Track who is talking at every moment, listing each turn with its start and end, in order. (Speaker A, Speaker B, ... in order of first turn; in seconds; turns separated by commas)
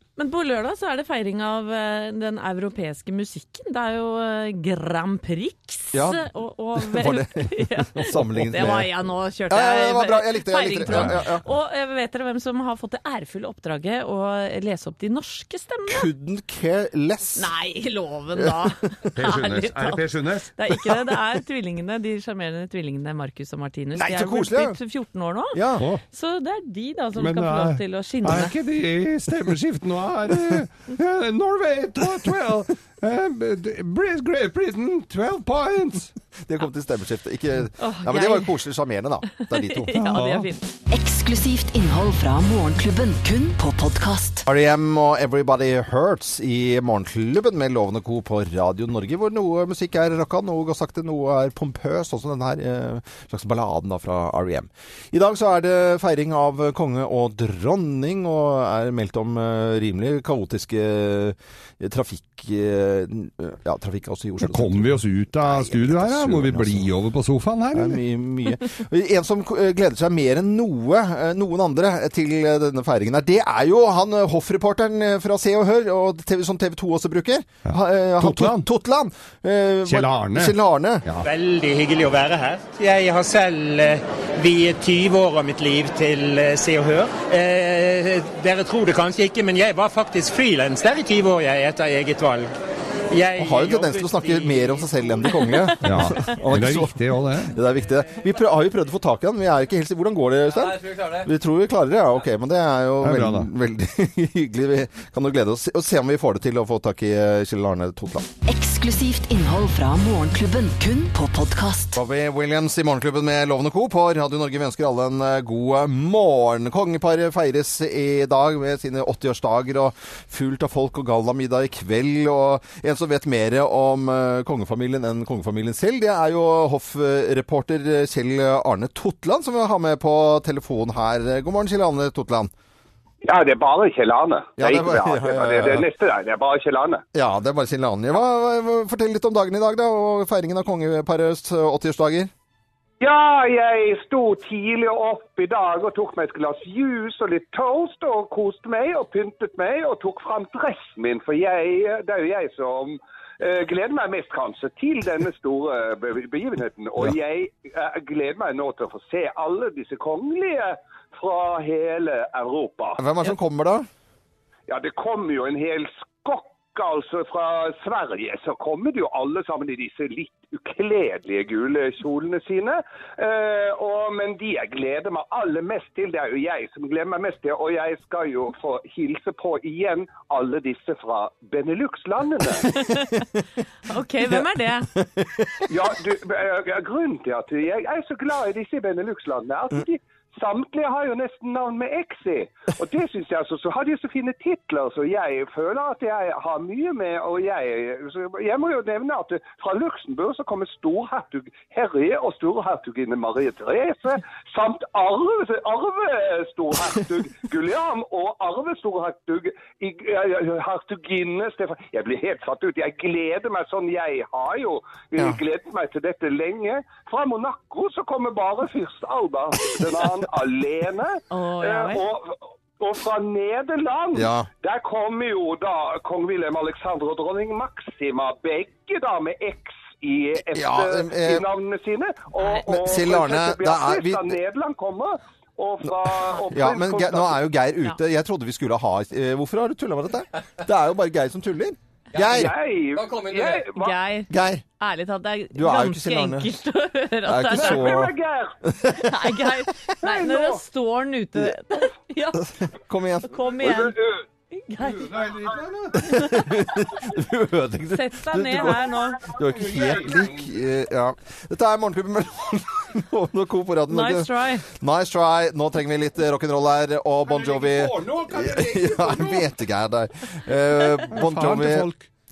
Speaker A: 0.2-16.1, Speaker B: 5.9-8.9, Speaker B: 9.5-11.5, Speaker C: 10.9-11.2, Speaker B: 15.9-17.5, Speaker A: 17.4-28.5, Speaker B: 18.4-18.7, Speaker C: 19.2-20.5, Speaker B: 23.9-24.8, Speaker B: 25.5-25.9, Speaker C: 27.2-36.1, Speaker B: 28.3-28.5, Speaker B: 36.4-40.1, Speaker A: 37.8-38.5, Speaker A: 39.4-40.7, Speaker C: 40.1-40.5, Speaker D: 40.9-44.4, Speaker B: 44.5-66.9, Speaker C: 64.4-68.0, Speaker B: 67.7-81.0, Speaker C: 77.7-78.7, Speaker C: 79.9-81.3, Speaker E: 81.2-92.5, Speaker E: 93.1-94.9, Speaker B: 93.4-108.3, Speaker C: 95.8-97.5, Speaker C: 103.0-103.5, Speaker D: 108.5-112.0, Speaker B: 112.0-132.5, Speaker F: 133.2-137.0, Speaker B: 134.6-135.9, Speaker B: 137.1-142.3, Speaker F: 143.0-163.0, Speaker B: 163.0-163.9, Speaker F: 164.7-182.7, Speaker A: 182.7-183.2, Speaker A: 183.8-184.9, Speaker B: 184.3-185.7, Speaker F: 185.7-237.4, Speaker A: 221.3-222.1, Speaker B: 224.2-224.5, Speaker B: 230.5-231.4, Speaker B: 232.6-234.4, Speaker B: 236.1-242.6, Speaker F: 242.2-244.0, Speaker A: 243.7-248.0, Speaker B: 244.3-244.6, Speaker B: 245.5-246.5, Speaker B: 247.3-249.5, Speaker F: 247.5-248.6, Speaker A: 248.9-252.5, Speaker F: 250.0-250.6, Speaker B: 252.3-253.4, Speaker A: 253.2-254.0, Speaker F: 253.6-254.2, Speaker A: 254.5-255.2, Speaker C: 254.9-256.1, Speaker B: 255.9-271.9, Speaker A: 257.9-259.7, Speaker C: 259.4-260.5, Speaker A: 263.9-264.6, Speaker C: 267.3-269.5, Speaker C: 271.1-272.1